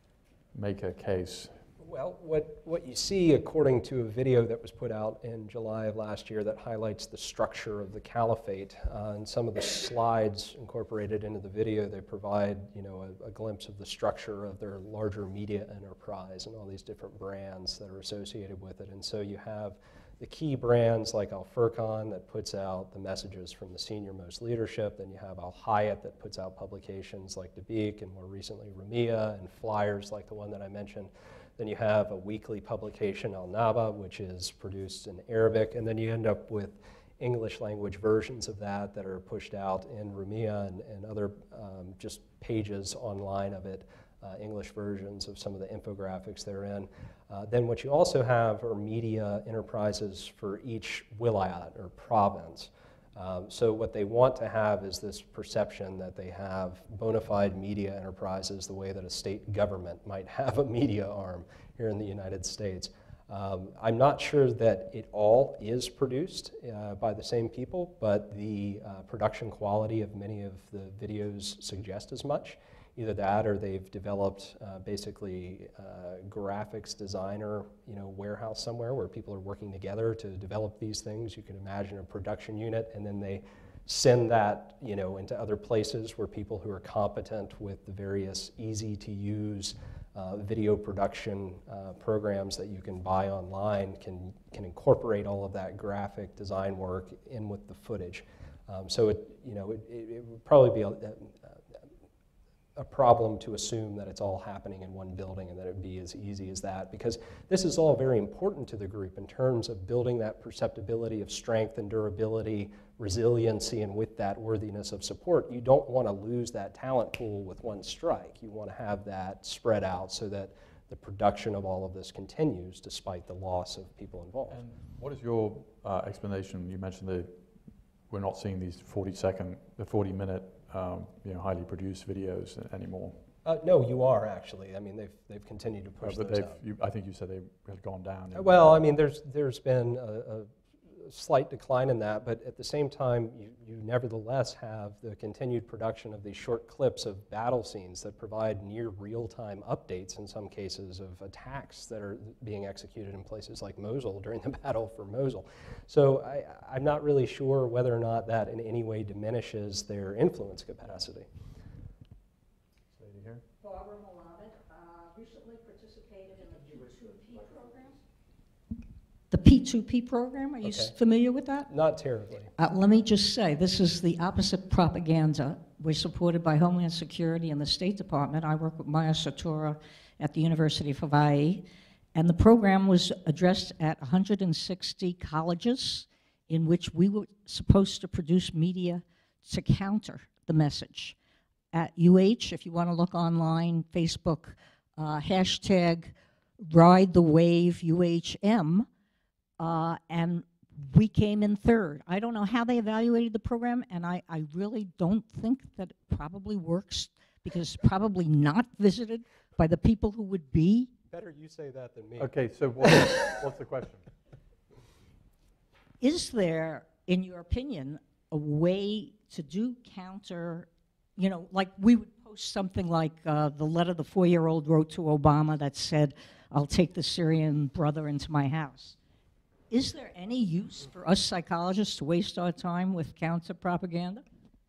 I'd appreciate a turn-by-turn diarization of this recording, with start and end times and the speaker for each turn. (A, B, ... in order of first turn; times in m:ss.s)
0:00.5-0:01.6 A
0:01.8-1:41.6 B
1:42.8-2:04.6 B
2:04.5-2:07.4 A
2:08.1-2:13.2 A
2:13.4-2:16.6 B
2:16.0-2:18.6 A
2:18.3-2:41.3 B
2:42.9-2:43.4 A
2:43.6-2:48.0 C
2:49.3-2:51.7 C
2:50.6-2:50.9 B
2:51.7-2:52.5 B
2:52.6-3:01.6 C
3:02.1-3:11.2 C
3:11.7-3:18.9 C
3:19.6-3:30.9 C
3:31.1-3:32.3 B
3:32.2-3:34.0 A
3:36.0-3:49.0 C
3:49.7-3:54.2 C